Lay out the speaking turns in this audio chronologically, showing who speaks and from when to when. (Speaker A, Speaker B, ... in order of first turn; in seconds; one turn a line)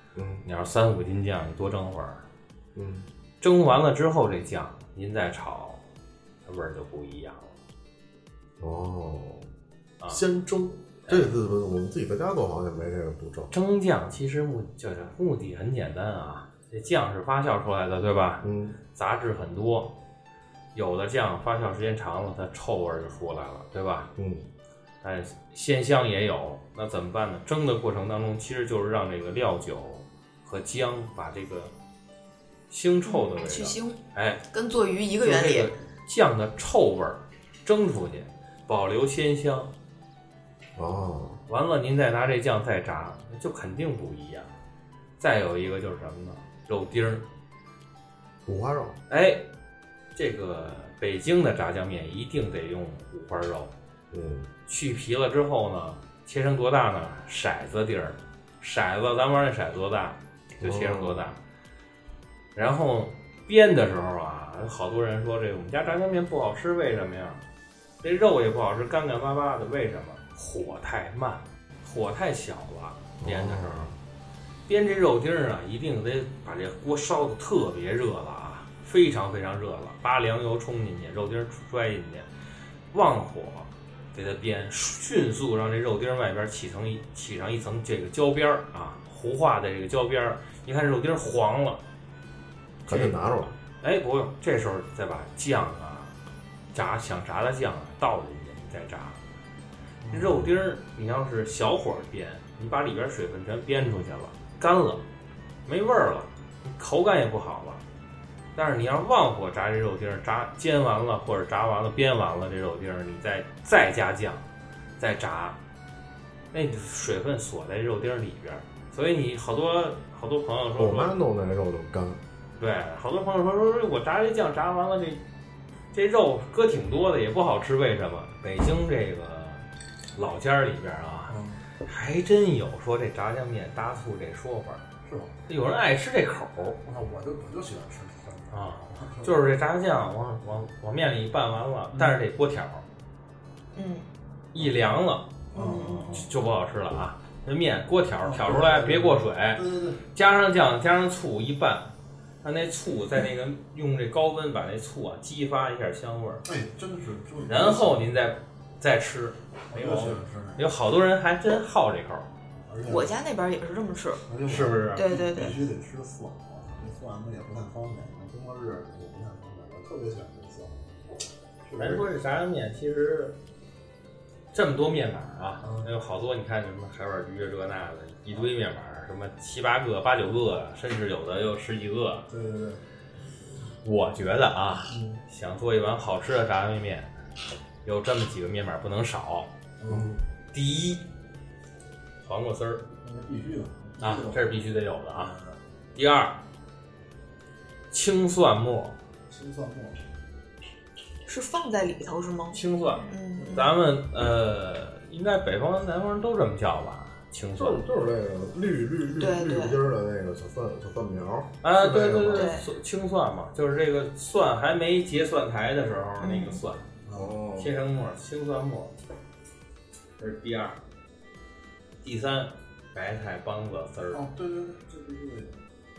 Speaker A: 0.1-0.4
Speaker B: 0.4-2.2
Speaker A: 2.7-3.1
Speaker B: 3.4-5.8
Speaker B: 6.4-7.6
Speaker A: 8.6-9.5
Speaker A: 10.1-13.5
Speaker B: 11.1-11.3
Speaker B: 13.5-19.9
Speaker A: 18.4-18.8
Speaker B: 20.7-24.1
Speaker A: 24.2-24.4
Speaker B: 25.0-31.7
Speaker B: 32.7-34.4
Speaker C: 33.0-35.7
Speaker B: 35.2-39.7
Speaker A: 40.8-41.4
Speaker B: 41.5-44.5
Speaker B: 45.2-47.2
Speaker A: 48.5-49.0
Speaker B: 49.1-49.4
Speaker B: 50.1-53.7
Speaker A: 54.1-54.5
Speaker B: 54.7-61.4
Speaker A: 60.6-61.3
Speaker B: 62.5-67.4
Speaker B: 68.0-73.9
Speaker A: 73.2-73.9
Speaker B: 74.7-82.3
Speaker B: 82.9-91.8
Speaker A: 92.8-93.5
Speaker B: 92.9-93.2
Speaker B: 93.8-96.1
Speaker B: 96.7-99.2
Speaker D: 100.0-100.4
Speaker B: 100.1-105.0
Speaker B: 105.7-107.8
Speaker B: 108.5-114.4
Speaker B: 115.0-115.6
Speaker B: 116.5-121.1
Speaker A: 120.8-122.2
Speaker B: 122.6-125.2
Speaker B: 125.9-129.6
Speaker B: 130.2-134.8
Speaker D: 131.3-131.6
Speaker D: 135.0-135.3
Speaker B: 135.5-136.8
Speaker D: 136.8-139.3
Speaker B: 138.5-142.8
Speaker D: 141.9-142.2
Speaker C: 143.7-144.1
Speaker B: 144.5-145.3
Speaker C: 145.5-146.1
Speaker D: 145.5-146.3
Speaker B: 146.1-156.4
Speaker D: 148.2-150.0
Speaker D: 156.4-158.1
Speaker B: 157.4-162.3
Speaker D: 159.7-160.7
Speaker D: 162.6-163.2
Speaker C: 162.9-164.2
Speaker D: 164.3-170.9
Speaker B: 164.4-165.1
Speaker C: 164.9-165.6
Speaker D: 171.6-172.2
Speaker B: 171.8-173.4
Speaker B: 174.5-182.3
Speaker D: 175.6-175.9
Speaker D: 182.3-182.8
Speaker B: 183.8-187.1
Speaker D: 184.9-185.2
Speaker B: 187.8-189.5
Speaker D: 189.8-190.1
Speaker A: 189.9-190.2
Speaker B: 190.5-191.0
Speaker B: 192.2-192.8
Speaker D: 193.0-194.6
Speaker B: 194.0-195.3
Speaker D: 195.1-195.6
Speaker B: 195.9-196.4
Speaker B: 197.9-198.9
Speaker D: 199.3-200.0
Speaker C: 201.2-203.7
Speaker B: 202.5-207.8
Speaker A: 207.6-212.5
Speaker C: 209.2-209.8
Speaker B: 211.6-216.8
Speaker C: 212.3-212.6
Speaker C: 216.2-216.6
Speaker D: 217.0-217.3
Speaker A: 217.1-217.7
Speaker B: 217.6-219.0
Speaker B: 220.2-220.8
Speaker B: 222.0-224.2
Speaker D: 224.1-225.6